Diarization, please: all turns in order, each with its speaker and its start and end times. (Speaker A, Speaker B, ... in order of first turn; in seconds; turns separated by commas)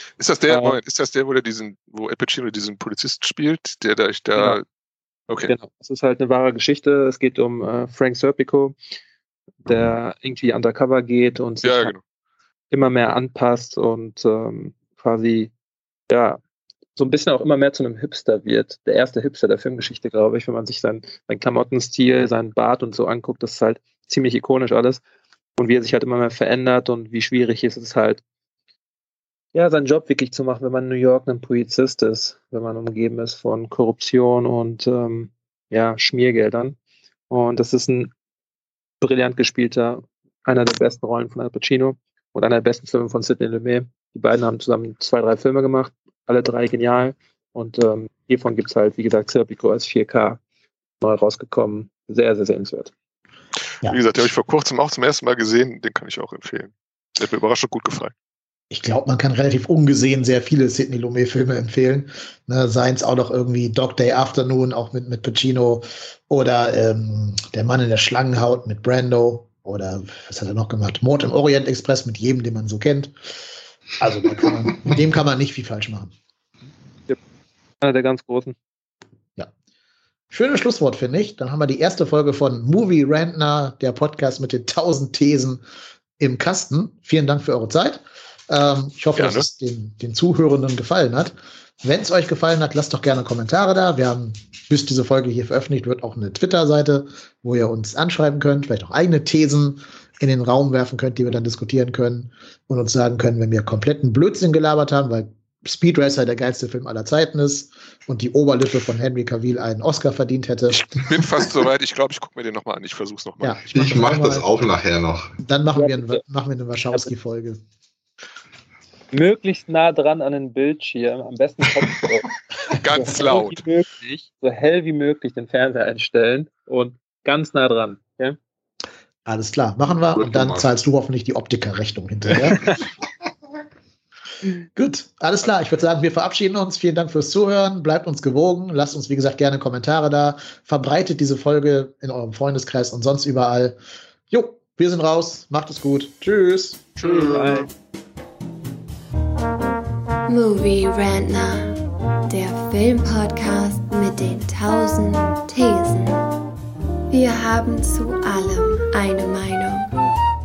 Speaker A: 0.2-4.6, Speaker B: 0.5-0.8, Speaker B: 5.5-8.8, Speaker B: 9.7-11.9, Speaker A: 11.6-12.0, Speaker B: 12.7-15.5, Speaker B: 16.1-16.4, Speaker B: 17.0-25.0, Speaker B: 25.6-28.2, Speaker B: 29.5-36.8, Speaker B: 37.3-38.1, Speaker B: 39.0-50.4, Speaker B: 51.0-52.9, Speaker A: 53.9-58.1, Speaker C: 58.7-73.4, Speaker C: 74.0-76.1, Speaker B: 77.8-78.6, Speaker C: 80.3-85.6, Speaker C: 86.2-110.9, Speaker A: 89.2-89.5, Speaker A: 110.7-113.6, Speaker C: 113.4-114.5, Speaker D: 113.7-115.4, Speaker C: 115.4-117.6, Speaker B: 115.7-116.2, Speaker B: 119.1-128.4, Speaker A: 122.7-123.6, Speaker C: 129.3-132.6, Speaker D: 130.1-130.7, Speaker B: 132.5-132.8, Speaker C: 134.8-143.8, Speaker C: 144.3-147.3, Speaker B: 147.0-147.7, Speaker E: 150.3-156.2, Speaker E: 157.1-159.9